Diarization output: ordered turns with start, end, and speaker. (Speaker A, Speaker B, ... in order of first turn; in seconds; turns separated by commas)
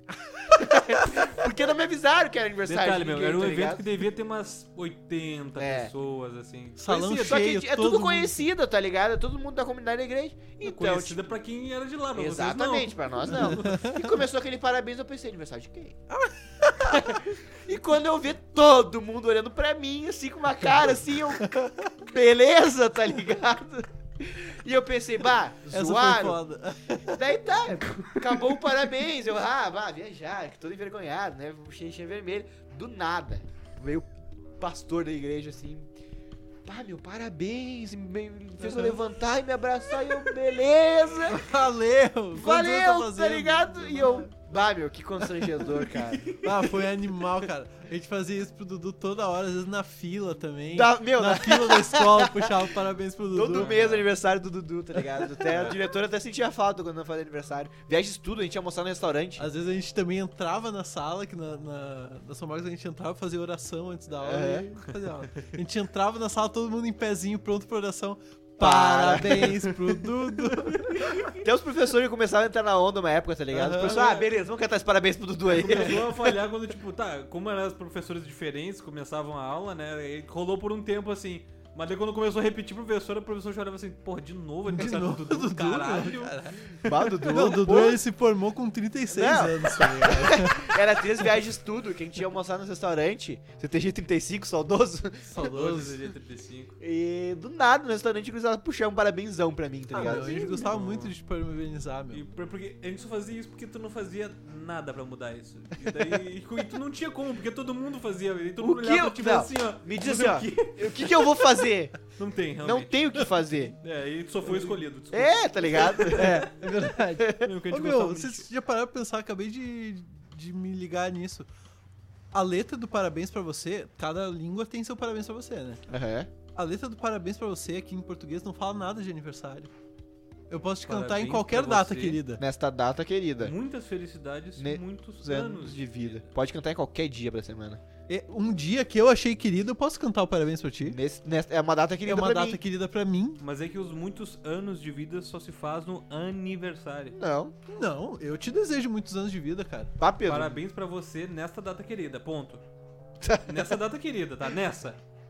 Speaker A: 0.5-3.9, Speaker B: 2.6-7.4, Speaker A: 5.6-5.9, Speaker C: 6.8-8.5, Speaker A: 7.0-11.3, Speaker B: 10.6-13.9, Speaker A: 12.1-16.0, Speaker C: 13.3-14.1, Speaker C: 16.1-17.2, Speaker A: 16.8-26.4, Speaker C: 21.4-21.7, Speaker C: 25.7-27.2, Speaker A: 27.1-34.1, Speaker A: 34.6-35.9, Speaker A: 36.6-41.4, Speaker C: 38.6-39.0, Speaker C: 41.3-44.3, Speaker A: 42.3-46.4, Speaker B: 45.9-46.6, Speaker C: 46.4-53.9, Speaker A: 50.7-52.7, Speaker A: 53.3-59.5, Speaker B: 53.5-54.1, Speaker C: 55.0-55.7, Speaker B: 55.5-55.8, Speaker C: 59.4-71.0, Speaker A: 64.2-64.7, Speaker A: 68.6-70.2, Speaker B: 71.0-71.3, Speaker A: 71.1-76.3, Speaker C: 73.5-74.1, Speaker B: 73.8-74.3, Speaker B: 75.5-86.7, Speaker C: 84.7-90.7, Speaker A: 86.8-88.0, Speaker A: 89.1-95.4, Speaker C: 95.3-96.0, Speaker B: 95.4-96.8, Speaker A: 96.8-100.7, Speaker C: 99.9-102.2, Speaker B: 100.0-101.2, Speaker B: 102.1-111.4, Speaker A: 105.9-106.2, Speaker A: 108.6-112.0, Speaker B: 112.2-112.9, Speaker A: 112.6-113.8, Speaker B: 113.8-116.8, Speaker C: 114.5-114.8, Speaker A: 115.1-117.5, Speaker C: 116.0-121.5, Speaker B: 117.4-118.5, Speaker C: 122.3-125.8, Speaker A: 125.9-126.3, Speaker C: 126.5-129.7, Speaker C: 130.5-132.4, Speaker B: 130.8-132.2, Speaker A: 132.4-133.6, Speaker B: 133.4-136.3, Speaker A: 134.6-137.8, Speaker C: 138.1-141.0, Speaker A: 140.8-142.6, Speaker C: 142.1-143.4, Speaker B: 143.4-147.2, Speaker A: 147.1-147.6, Speaker C: 147.7-149.9, Speaker A: 150.0-150.6, Speaker B: 150.2-152.6, Speaker A: 153.2-153.7, Speaker B: 153.5-155.0